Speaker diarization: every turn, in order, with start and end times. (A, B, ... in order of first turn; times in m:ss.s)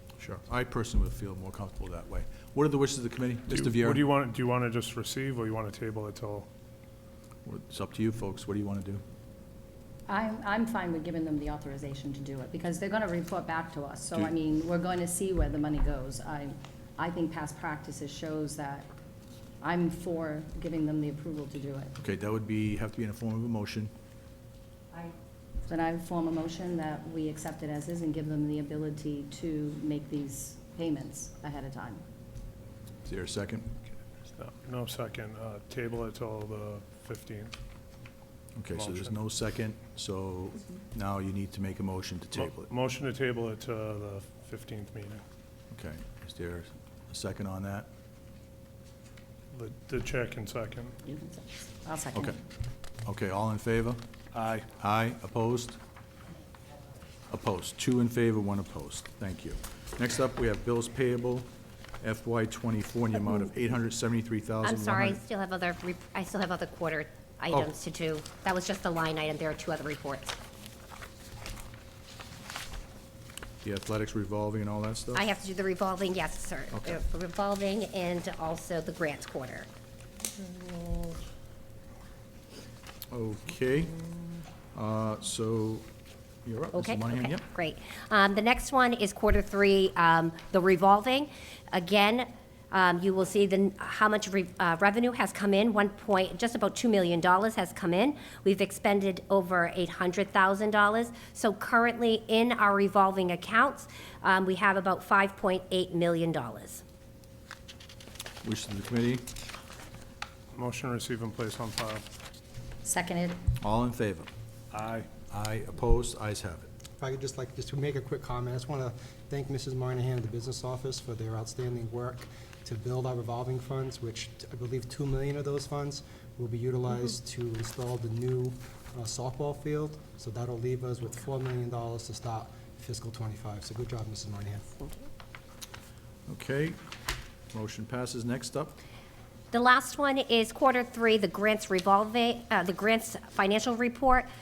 0:00.2-0:04.0 A
0:03.5-0:06.5 B
0:07.4-0:09.0 A
0:10.1-0:18.9 C
0:19.6-0:21.9 C
0:22.0-0:23.9 A
0:25.7-0:32.0 C
0:33.0-0:33.7 A
0:34.3-0:37.5 B
0:38.6-0:42.7 A
0:38.7-0:39.2 B
0:42.3-0:45.2 B
0:45.7-0:47.9 A
0:49.5-0:51.0 B
0:51.0-0:52.4 C
0:53.0-0:54.0 A
0:54.3-0:54.7 B
0:54.8-0:55.8 A
0:57.3-1:01.5 A
1:02.0-1:05.2 A
1:04.6-1:10.3 D
1:13.6-1:15.2 A
1:15.1-1:19.7 D
1:16.7-1:17.0 A
1:20.4-1:21.2 B
1:23.1-1:24.0 A
1:24.7-1:25.8 A
1:26.4-1:27.4 A
1:26.7-1:46.8 D
1:48.4-1:49.3 A
1:50.5-1:52.0 B
1:52.8-1:53.4 C
1:53.6-1:54.3 A
1:54.7-1:55.1 B
1:55.3-1:56.7 A
1:57.0-2:14.8 E
2:16.3-2:16.8 A
2:17.5-2:18.8 A
2:19.5-2:24.3 D